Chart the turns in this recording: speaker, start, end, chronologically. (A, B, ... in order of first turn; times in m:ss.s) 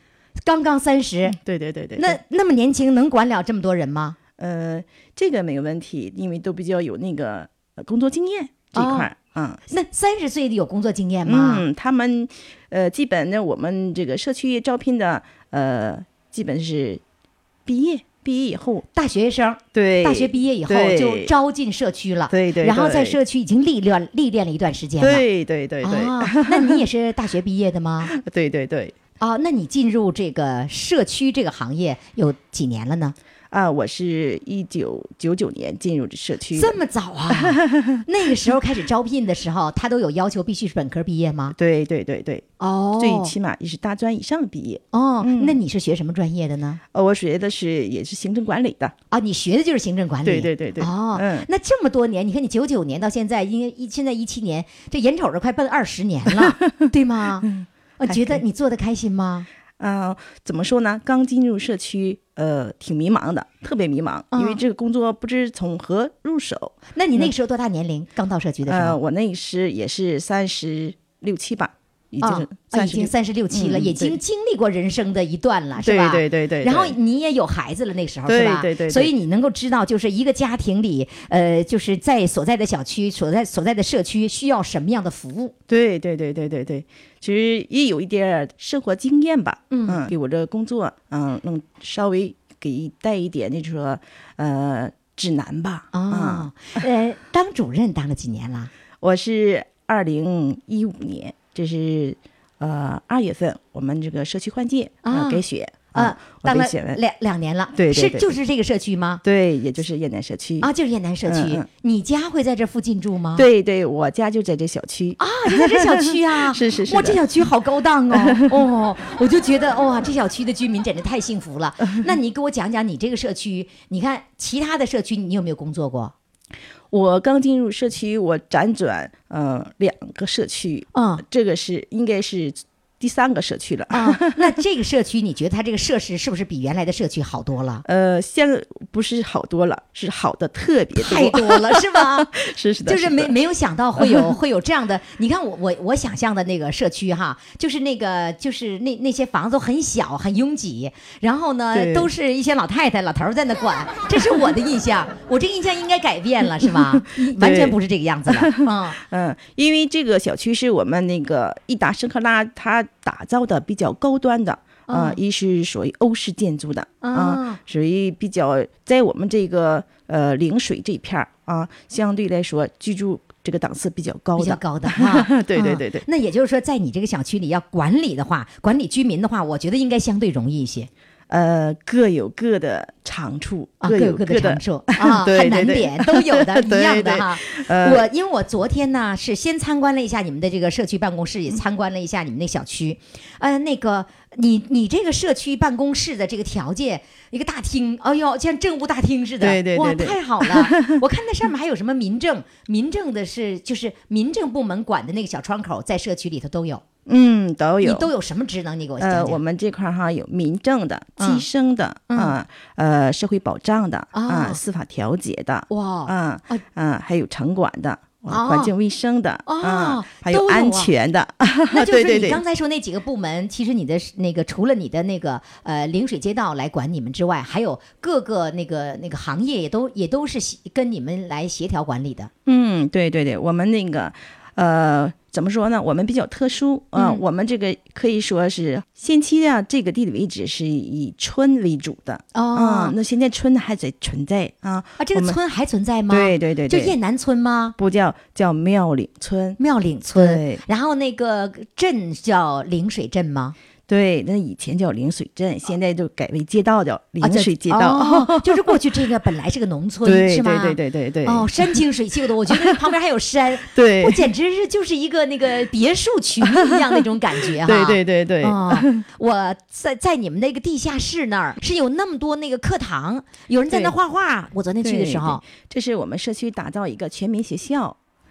0:00.4-0:01.4 A
0:01.3-0:02.2 B
0:02.0-0:04.2 A
0:04.4-0:09.6 B
0:08.8-0:09.1 A
0:09.7-0:11.6 A
0:11.2-0:17.0 B
0:17.7-0:18.9 B
0:19.0-0:25.2 A
0:19.7-0:21.3 B
0:22.3-0:23.2 B
0:25.0-0:26.8 B
0:25.8-0:28.1 A
0:28.1-0:29.0 B
0:29.2-0:33.2 A
0:33.5-0:36.8 B
0:36.6-0:41.6 A
0:37.3-0:38.5 B
0:41.5-0:45.6 B
0:42.6-0:43.3 A
0:44.9-0:46.8 A
0:46.9-0:48.9 B
0:49.1-0:57.5 A
0:50.2-0:51.5 B
0:56.3-0:56.8 B
0:57.5-0:58.4 B
0:58.0-0:59.5 A
0:59.8-1:07.3 B
1:04.3-1:04.6 A
1:07.0-1:09.0 A
1:08.7-1:14.2 B
1:12.2-1:25.5 A
1:15.8-1:17.0 B
1:18.3-1:19.1 B
1:25.7-1:36.5 B
1:29.7-1:30.1 A
1:35.9-1:38.7 A
1:39.0-1:47.0 B
1:45.0-1:45.4 A
1:45.9-1:49.2 A
1:47.8-1:48.3 B
1:49.2-1:50.7 B
1:50.6-1:53.4 A
1:51.3-1:51.7 B
1:53.4-1:57.3 B
1:55.2-2:06.1 A
1:58.1-1:58.6 B
2:06.9-2:14.6 B
2:10.9-2:11.2 A
2:13.9-2:17.8 A
2:17.8-2:23.3 B
2:21.0-2:22.3 A
2:22.9-2:39.0 A
2:24.0-2:24.3 B
2:31.7-2:32.1 B
2:34.2-2:34.5 B
2:36.6-2:56.0 B
2:44.9-2:45.2 A
2:47.0-2:47.6 A
2:54.4-3:00.9 A
3:01.3-3:08.1 B
3:03.8-3:26.8 A
3:19.4-3:21.0 B
3:27.1-3:28.1 B
3:27.8-3:29.4 A
3:29.0-3:42.4 B
3:31.2-3:31.4 A
3:32.1-3:32.4 A
3:34.1-3:34.6 A
3:35.7-3:36.6 A
3:38.3-3:38.7 A
3:39.5-3:40.9 A
3:41.7-3:52.3 A
3:52.5-4:05.4 B
3:57.0-3:57.2 A
4:02.3-4:03.0 A
4:05.0-4:07.8 A
4:06.1-4:07.0 B
4:07.8-4:10.6 B
4:09.6-4:13.6 A
4:13.9-4:18.8 B
4:17.2-4:35.4 A
4:20.0-4:21.8 B
4:22.5-4:22.9 B
4:23.6-4:24.2 B
4:26.4-4:29.0 B
4:33.7-4:34.0 B
4:34.8-4:38.0 B